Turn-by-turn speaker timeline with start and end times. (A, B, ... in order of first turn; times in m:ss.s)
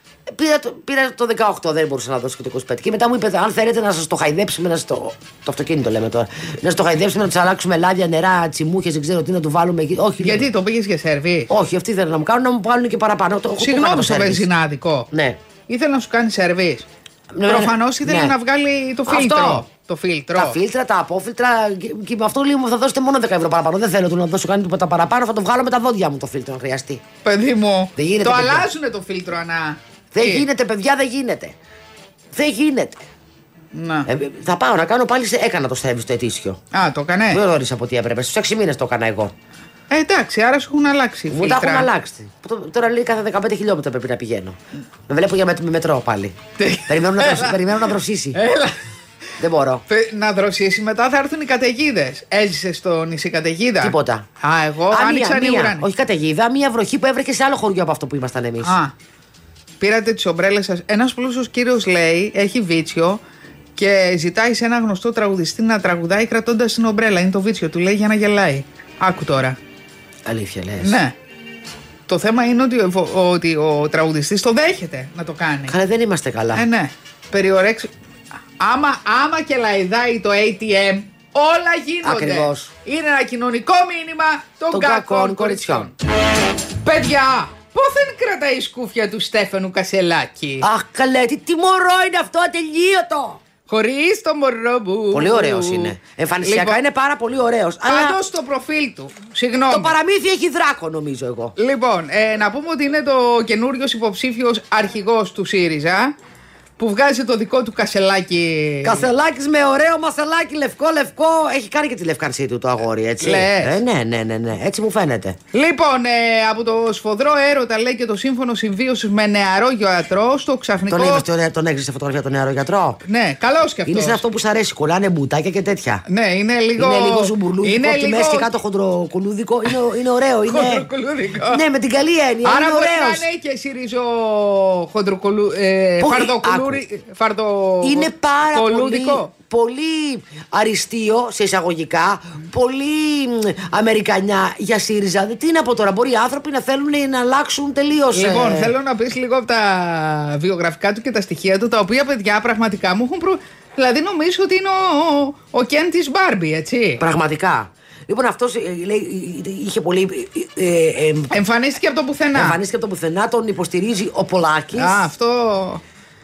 0:00.3-0:10.5 A
0:10.2-0:11.5 B
0:11.5-0:14.5 A
0:13.6-0:15.1 B
0:15.1-0:15.4 A
0:15.7-0:16.9 B
0:17.3-0:18.3 A
0:17.4-0:20.6 B
0:19.1-0:19.6 A
0:20.3-0:27.0 A
0:27.2-0:30.4 B
0:28.0-0:28.7 A
0:30.1-0:31.5 A
0:32.3-0:33.0 A
0:33.7-0:34.1 B
0:34.1-0:36.6 A
0:36.7-0:37.4 B
0:37.3-0:39.3 A
0:39.9-0:41.9 B
0:41.3-0:44.6 A
0:45.1-0:46.4 A
0:46.6-0:47.7 B
0:46.9-0:48.4 A
0:48.3-0:48.8 B
0:49.4-0:49.8 A
0:49.9-0:55.8 B
0:53.8-0:54.2 A
0:54.9-0:58.8 A
0:58.6-0:58.9 B
0:59.8-1:03.2 B
1:03.8-1:09.6 B
1:10.2-1:11.0 A
1:10.8-1:11.1 B
1:12.1-1:15.8 B
1:15.7-1:16.6 A
1:16.5-1:17.9 B
1:18.6-1:26.0 B
1:22.0-1:22.7 A
1:24.7-1:25.9 A
1:26.8-1:30.6 B
1:30.6-1:33.4 A
1:33.7-1:36.8 B
1:35.1-1:38.2 A
1:37.8-1:39.9 B
1:39.7-1:41.5 A
1:41.6-1:46.1 B
1:46.8-1:49.0 B
1:48.8-1:55.4 A
1:53.2-1:53.8 B
1:55.5-2:01.2 B
2:00.9-2:03.0 A
2:03.0-2:04.2 B
2:03.8-2:06.0 A
2:06.1-2:08.5 B
2:06.8-2:10.9 A
2:10.4-2:11.6 B
2:11.5-2:13.2 A
2:12.4-2:19.3 B
2:16.0-2:16.8 A
2:17.8-2:28.7 A
2:28.1-2:37.0 B
2:37.0-2:41.4 A
2:41.3-2:42.6 B
2:42.3-2:45.0 A
2:44.7-2:45.8 B